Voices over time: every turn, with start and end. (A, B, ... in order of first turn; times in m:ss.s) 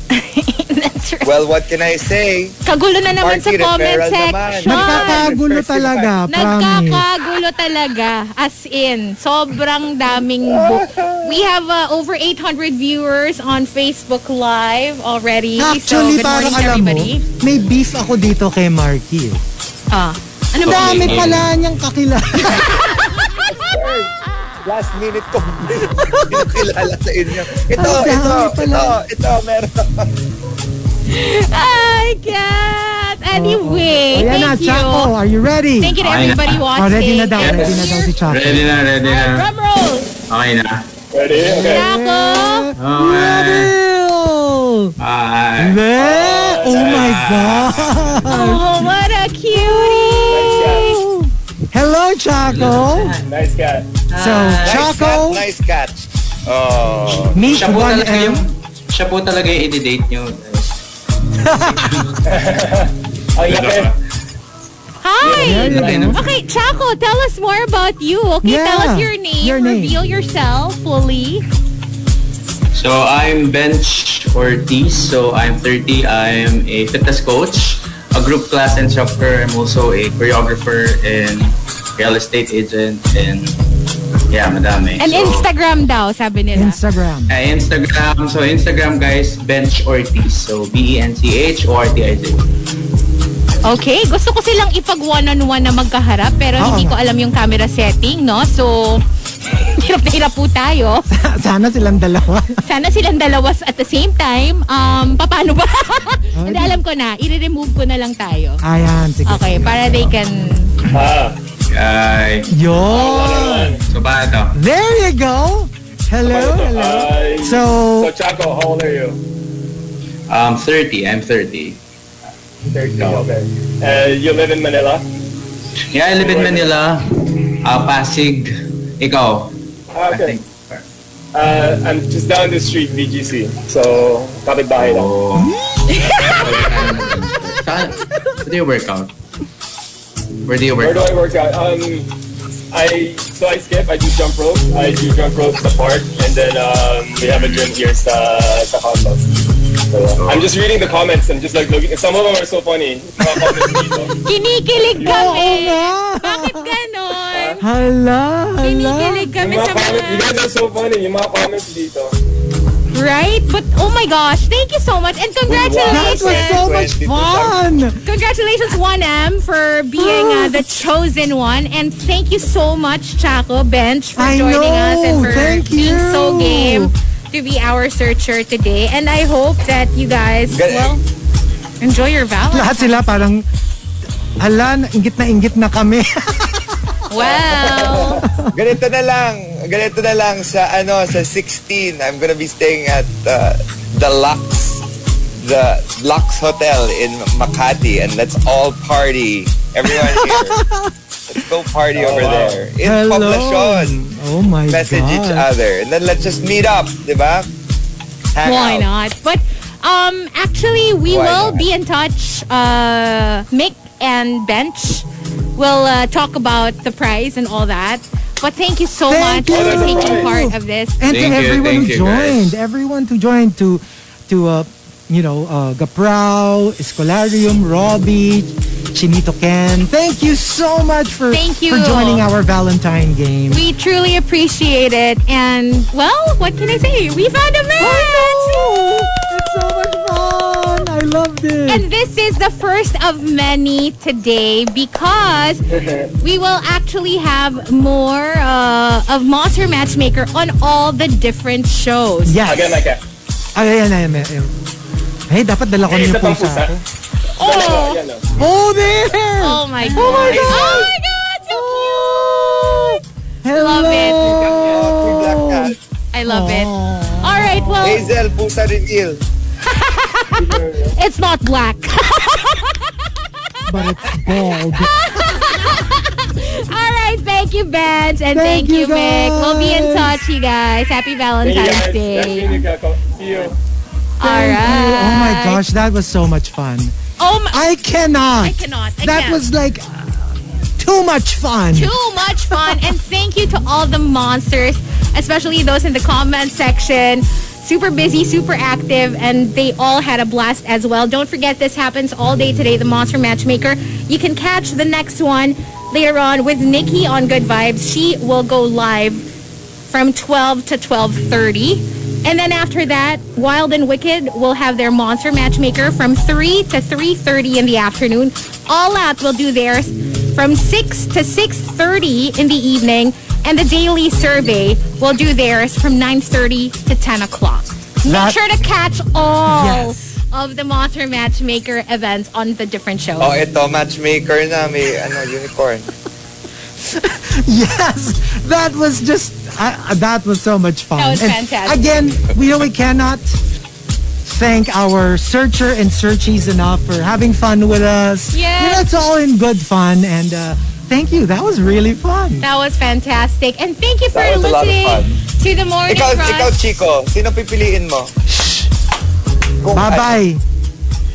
0:00.1-0:01.5 A
0:01.2-0:02.6 B
0:02.6-0:05.3 A
0:03.2-0:06.2 B
0:04.6-0:07.1 C
0:06.3-0:17.2 A
0:10.5-0:11.3 B
0:15.6-0:19.4 C
0:19.9-0:21.4 A
0:20.6-0:23.1 C
0:20.6-0:21.5 D
0:22.4-0:23.4 A
0:23.6-0:24.1 E
0:23.6-0:24.1 B
0:24.6-0:30.1 B
0:25.7-0:26.6 C
0:27.7-0:29.0 C
0:31.1-0:35.1 A
0:33.3-0:36.0 C
0:35.8-0:38.1 A
0:36.0-0:36.7 D
0:36.6-0:38.7 C
0:37.4-0:39.5 D
0:39.0-0:40.1 A
0:40.3-0:40.8 D
0:41.1-0:41.8 E
0:41.4-0:44.9 C
0:41.7-0:42.7 A
0:42.8-0:43.8 D
0:45.0-0:45.9 D
0:45.6-0:48.7 C
0:45.9-0:47.1 E
0:46.7-0:48.2 D
0:48.3-0:51.0 A
0:50.3-0:50.9 E
0:50.7-0:53.2 C
0:52.4-0:53.2 D
0:53.2-0:53.9 E
0:54.1-0:54.9 D
0:54.1-0:55.4 C
0:54.6-0:57.5 B
0:57.3-0:58.5 C
0:57.4-1:00.7 D
1:01.4-1:02.1 C
1:02.2-1:03.9 E
1:03.5-1:03.9 D
1:05.0-1:11.4 A
1:05.2-1:06.1 E
1:05.3-1:06.2 C
1:08.4-1:10.0 C
1:12.7-1:23.5 D
1:24.3-1:25.5 D
1:25.0-1:26.8 A
1:26.5-1:27.3 C
1:27.3-1:32.4 D
1:33.6-1:41.0 A
1:36.6-1:37.0 C
1:41.1-1:42.6 C
1:42.6-1:48.6 A
1:46.3-1:46.8 C
1:48.6-1:50.1 C
1:49.2-1:50.8 A
1:50.9-1:51.4 E
1:51.7-1:52.5 D
1:52.5-1:53.8 C
1:52.9-1:53.8 E
1:53.9-1:54.6 D
1:54.5-1:58.1 C
1:56.2-1:59.2 E
2:00.3-2:01.8 D
2:02.7-2:05.0 E
2:03.0-2:03.3 D
2:05.9-2:09.5 D
2:06.2-2:06.7 E
2:09.9-2:10.4 E
2:10.1-2:10.8 D
2:11.3-2:15.1 E
2:14.8-2:15.5 D
2:16.3-2:19.1 D
2:20.4-2:21.3 D
2:20.8-2:22.1 E
2:22.7-2:29.4 E
2:27.3-2:27.6 D
2:29.9-2:34.2 E
2:30.2-2:30.5 D
2:33.3-2:33.6 C
2:34.2-2:37.6 A
2:34.7-2:35.5 E
2:35.0-2:36.7 C
2:37.3-2:37.6 E
2:37.6-2:39.3 C
2:38.6-2:40.3 A
2:39.4-2:42.2 E
2:42.9-2:46.6 A
2:45.4-2:47.6 B
2:45.9-2:48.0 C
2:48.0-3:01.0 A
2:50.0-2:50.6 C
2:54.2-2:56.9 C
3:00.5-3:01.0 B
3:01.8-3:03.2 A
3:02.5-3:03.4 C
3:04.4-3:06.8 C
3:07.1-3:08.3 A
3:07.3-3:07.9 B
3:08.3-3:08.5 C
3:08.5-3:14.8 B
3:15.4-3:20.6 B
3:19.8-3:20.9 C
3:21.3-3:24.0 B
3:21.9-3:22.7 E
3:22.8-3:25.5 C
3:24.7-3:27.5 B
3:28.3-3:28.9 B
3:28.4-3:35.0 A
3:31.0-3:31.7 B
3:35.6-3:41.0 A
3:39.1-3:53.6 C
3:39.5-3:40.3 E
3:41.0-3:42.5 D
3:51.3-3:52.2 A
3:53.5-3:59.2 A
3:57.8-4:01.8 C
4:01.7-4:05.6 A
4:05.7-4:06.1 E
4:06.2-4:12.6 A
4:12.2-4:12.9 C
4:12.4-4:13.0 E
4:13.5-4:14.5 C
4:15.3-4:16.8 C
4:15.9-4:16.8 E
4:17.4-4:18.0 A
4:17.4-4:18.2 E
4:18.4-4:20.8 C
4:19.4-4:23.0 A
4:20.2-4:20.9 B
4:21.5-4:28.0 C
4:23.5-4:24.6 A
4:24.6-4:25.8 B
4:26.1-4:28.1 A
4:27.8-4:29.2 B
4:29.6-4:30.4 A
4:30.4-4:31.0 E
4:30.9-4:32.9 A
4:33.7-4:35.4 C
4:33.7-4:42.6 A
4:38.3-4:40.2 C
4:41.4-4:43.6 E
4:44.2-4:45.6 A
4:44.2-4:46.9 C
4:47.2-4:47.7 A
4:47.5-4:49.8 C
4:48.4-4:49.4 A
4:50.8-4:51.9 C
4:51.7-5:09.2 A
4:52.5-4:52.9 C
5:09.9-5:33.4 A
5:28.0-5:28.4 C
5:29.4-5:30.1 C
5:33.2-5:35.9 B
5:36.8-5:43.4 C
5:41.0-5:41.8 A
5:44.2-5:52.4 C
5:48.3-5:48.9 A
5:52.4-5:56.6 A
5:54.1-5:55.2 B
5:55.9-5:58.1 B
5:59.6-6:00.2 B
5:59.7-6:00.4 C